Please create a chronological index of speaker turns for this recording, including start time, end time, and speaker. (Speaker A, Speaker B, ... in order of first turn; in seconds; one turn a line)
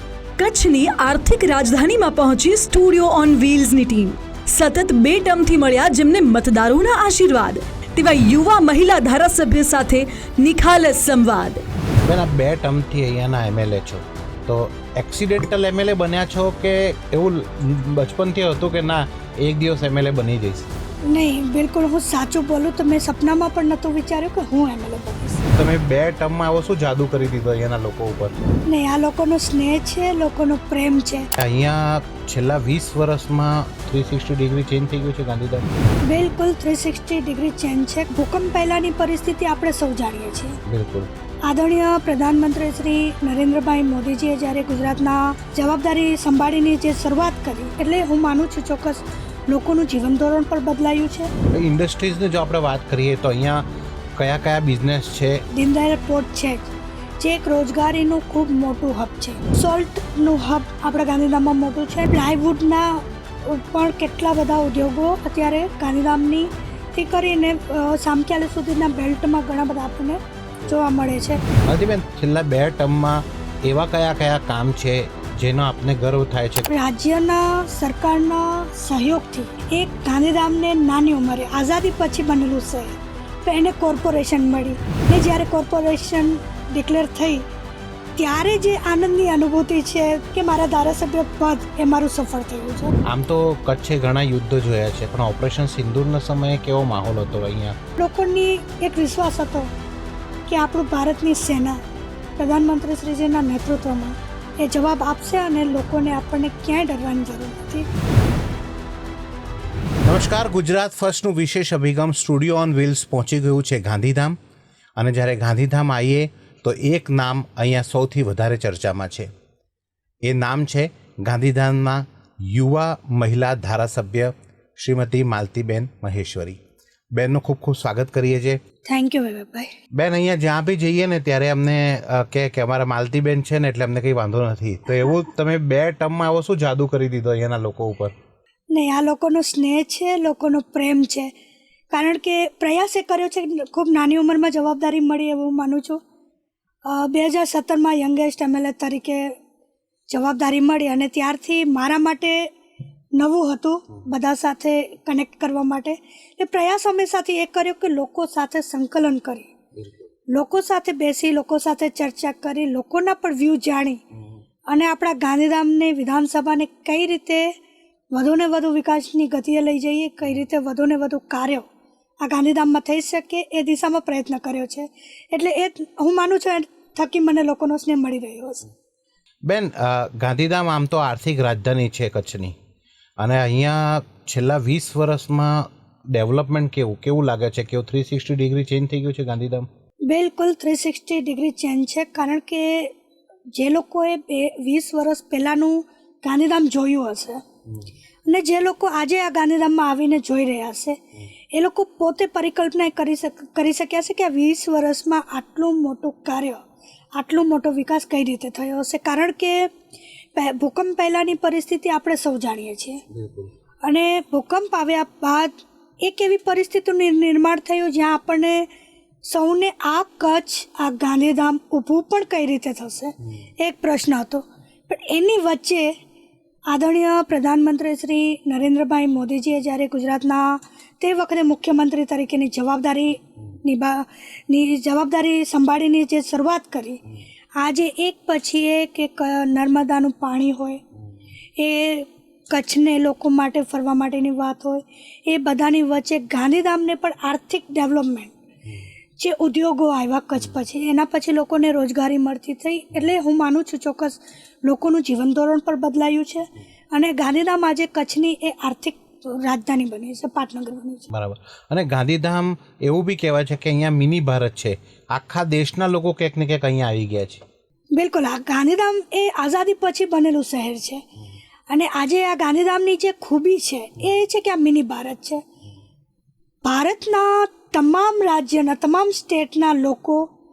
Speaker A: 0.4-11.6
Speaker B: 12.0-20.7
Speaker C: 21.1-25.4
Speaker B: 25.5-28.4
Speaker C: 28.6-31.3
Speaker B: 31.4-35.7
Speaker C: 36.0-40.6
Speaker B: 40.6-41.1
Speaker C: 41.4-51.3
Speaker B: 51.5-55.4
Speaker C: 55.5-71.4
Speaker B: 71.6-76.7
Speaker C: 76.7-87.4
Speaker C: 88.2-92.9
Speaker B: 93.0-97.8
Speaker C: 98.0-99.7
Speaker C: 100.5-101.8
Speaker C: 102.4-107.9
Speaker B: 110.0-114.4
Speaker B: 115.0-119.3
Speaker B: 120.2-126.6
Speaker B: 127.1-128.6
Speaker C: 128.8-129.7
Speaker B: 129.9-138.1
Speaker C: 138.7-141.3
Speaker C: 141.9-146.0
Speaker C: 146.8-149.4
Speaker C: 150.1-152.5
Speaker C: 153.1-159.5
Speaker B: 159.8-160.0
Speaker C: 160.3-164.0
Speaker C: 164.7-167.5
Speaker C: 168.1-171.7
Speaker C: 172.2-178.7
Speaker B: 179.4-182.6
Speaker B: 183.2-189.7
Speaker C: 190.1-192.9
Speaker C: 193.5-197.4
Speaker C: 198.2-201.0
Speaker C: 201.5-206.6
Speaker C: 207.1-209.7
Speaker C: 210.3-213.0
Speaker B: 213.1-213.5
Speaker C: 213.8-218.7
Speaker C: 219.2-225.9
Speaker C: 226.7-237.0
Speaker C: 237.6-240.8
Speaker C: 241.6-248.3
Speaker C: 249.2-261.1
Speaker B: 261.1-267.4
Speaker C: 267.9-271.1
Speaker C: 271.7-275.4
Speaker C: 276.6-280.3